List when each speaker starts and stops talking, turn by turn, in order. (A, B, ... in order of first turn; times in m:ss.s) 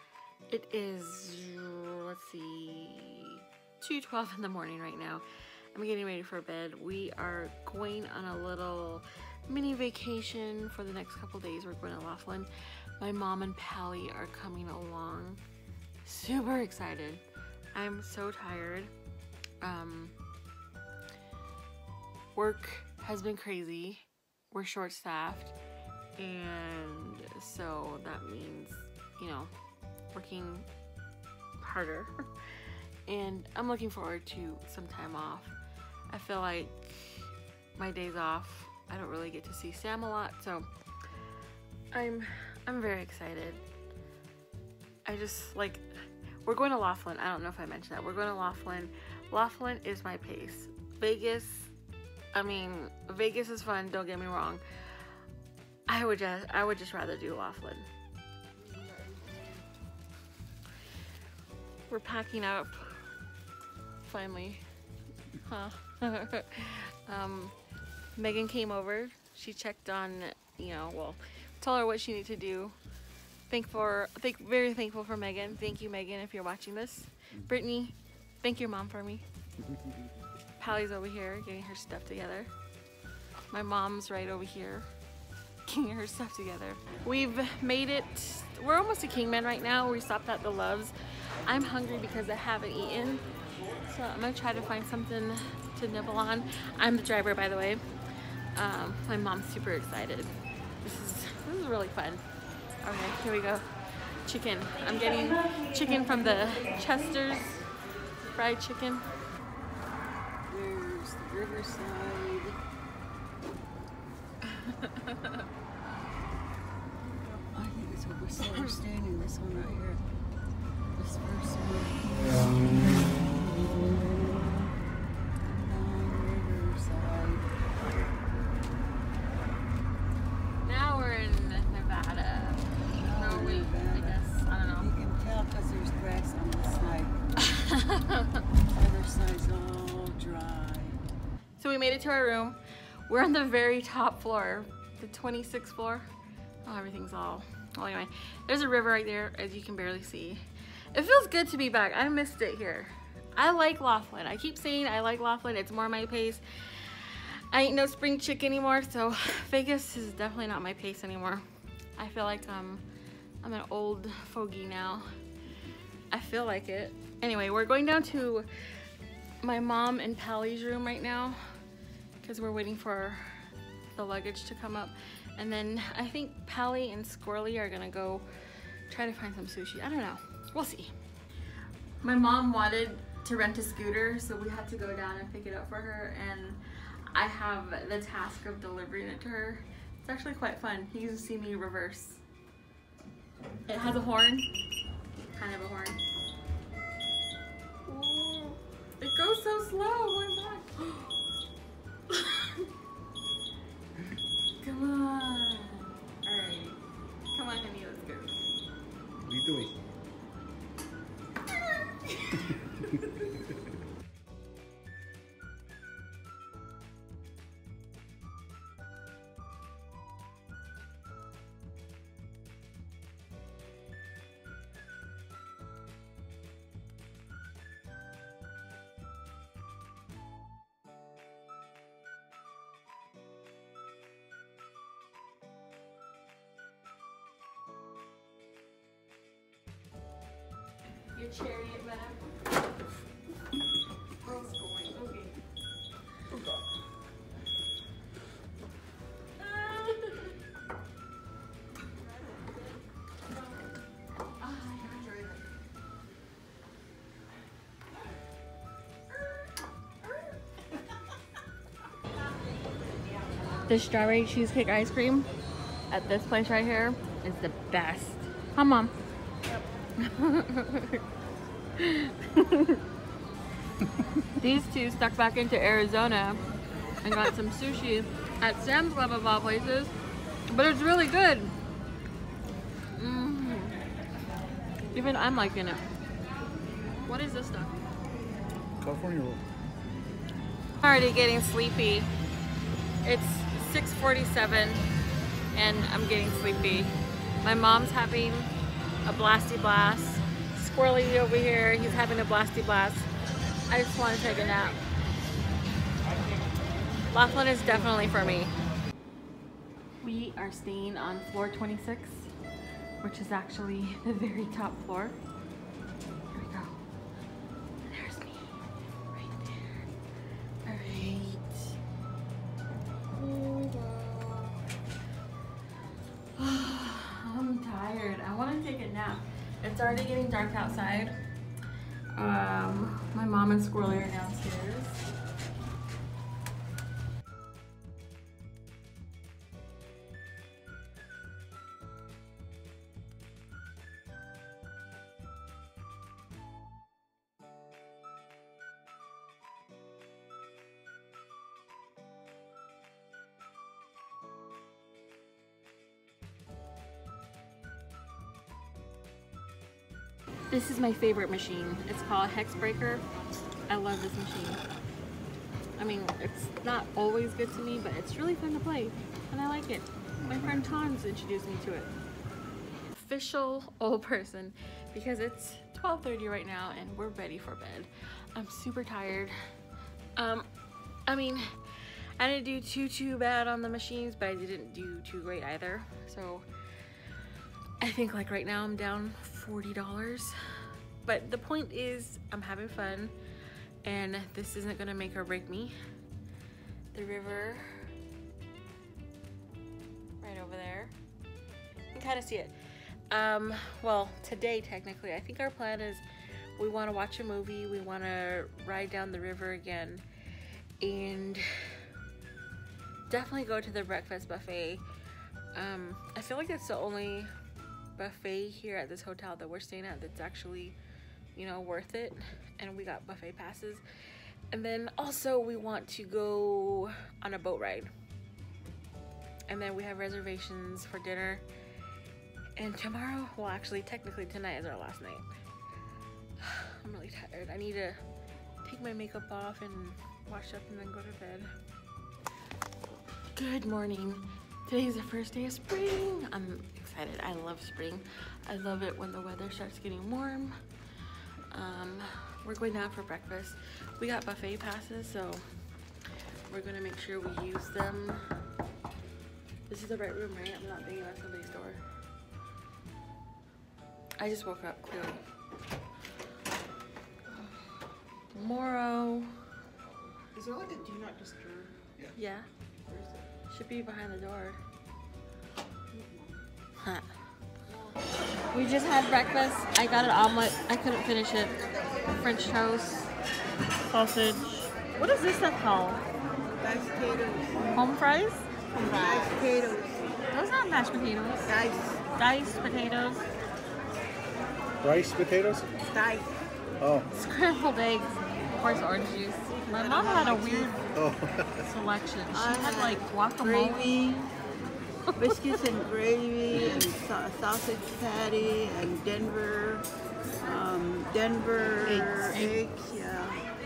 0:00.5-0:15.4 A
0:16.0-0:17.2 A
0:17.7-0:18.9 A
0:19.6-0:20.2 A
0:22.4-0:25.6 A
0:26.2-0:29.5 A
0:30.1-0:30.7 A
0:31.6-0:32.2 A
0:33.1-0:35.5 A
0:36.1-0:40.7 A
0:41.9-0:43.6 A
0:45.1-0:45.9 A
0:46.4-0:51.7 A
0:52.3-0:54.6 A
0:55.9-0:57.9 A
0:58.6-0:59.5 B
1:01.9-1:03.0 A
1:04.0-1:04.6 A
1:05.4-1:07.6 A
1:08.2-1:12.8 A
1:13.5-1:19.2 A
1:20.6-1:22.5 A
1:23.5-1:24.9 A
1:25.6-1:33.2 A
1:33.8-1:37.8 A
1:38.6-1:42.2 A
1:42.8-1:43.7 A
1:44.2-1:47.6 A
1:48.3-1:49.1 A
1:50.5-1:52.6 B
1:54.4-1:55.4 A
1:57.5-2:00.0 B
1:58.5-1:58.8 A
2:01.0-2:04.7 B
2:05.5-2:07.5 B
2:10.6-2:14.9 A
2:12.9-2:17.2 B
2:17.4-2:18.4 A
2:18.6-2:21.0 B
2:21.6-2:26.1 A
2:26.6-2:41.4 A
2:42.0-2:42.8 A
2:43.4-2:45.1 A
2:46.1-2:48.5 A
2:49.4-2:51.4 A
2:52.2-2:53.4 A
2:54.0-2:58.3 A
2:58.9-3:01.0 A
3:02.0-3:12.2 A
3:13.7-3:14.5 A
3:15.4-3:16.0 A
3:17.8-3:21.2 A
3:22.1-3:22.7 A
3:24.6-3:26.8 A
3:27.3-3:28.4 A
3:29.2-3:29.8 C
3:32.1-3:33.3 A
4:01.1-4:02.4 A
4:04.2-4:05.4 A
4:09.4-4:10.4 A
4:14.4-4:15.3 A
4:23.7-4:25.3 A
4:25.9-4:28.9 A
4:30.0-4:31.0 A
4:31.8-4:32.8 A
4:34.3-4:36.4 A
4:37.0-4:39.9 A
4:40.5-4:41.6 A
4:43.0-4:43.8 A
4:44.9-4:45.8 A
4:47.0-4:47.8 A
4:48.8-4:49.4 C
4:50.8-4:52.1 A
4:53.0-4:54.9 A
4:55.5-4:58.5 A
4:59.0-5:03.1 A
5:03.7-5:04.8 A
5:07.1-5:08.5 A
5:10.0-5:12.3 A
5:13.0-5:15.2 A
5:16.3-5:16.8 A
5:17.9-5:19.9 A
5:20.6-5:21.8 A
5:22.9-5:24.6 A
5:26.4-5:31.2 A
5:32.1-5:35.0 A
6:00.5-6:03.0 A
6:03.7-6:04.6 A
6:05.8-6:11.9 A
6:12.9-6:19.4 A
6:20.2-6:20.5 A
6:21.1-6:26.5 A
6:27.8-6:30.4 A
6:31.0-6:33.2 A
6:33.8-6:35.8 A
6:36.9-6:37.9 A
6:40.2-6:41.0 A
6:41.9-6:42.6 A
6:43.1-6:46.0 A
6:46.6-6:50.0 A
6:50.8-6:51.9 A
6:53.1-6:54.8 A
6:55.5-6:57.3 A
6:58.0-7:00.8 A
7:01.4-7:03.8 A
7:04.5-7:07.9 A
7:09.5-7:11.5 A
7:12.6-7:15.3 A
7:16.4-7:18.0 A
7:18.6-7:21.5 A
7:23.3-7:30.6 A
7:31.5-7:35.5 A
7:36.5-7:38.3 A
7:39.7-7:41.8 A
7:44.2-7:45.2 A
7:48.3-7:49.4 A
7:50.4-7:51.9 B
7:52.2-7:52.5 A
7:52.9-7:53.2 B
7:53.5-7:54.6 A
7:55.9-7:56.4 B
7:56.8-7:57.1 A
7:58.5-8:01.6 A
8:02.1-8:03.1 A
8:03.9-8:06.0 A
8:06.6-8:07.8 B
8:07.7-8:08.5 A
8:08.7-8:10.1 B
8:10.3-8:11.5 A
8:11.5-8:12.0 B
8:12.2-8:13.2 A
8:14.8-8:15.7 C
8:15.8-8:16.4 B
8:16.8-8:17.1 C
8:17.1-8:20.9 A
8:19.7-8:20.8 B
8:20.9-8:21.6 C
8:21.6-8:24.3 A
8:22.3-8:24.2 B
8:25.1-8:25.6 A
8:25.2-8:29.9 B
8:30.4-8:33.4 B
8:31.8-8:32.6 A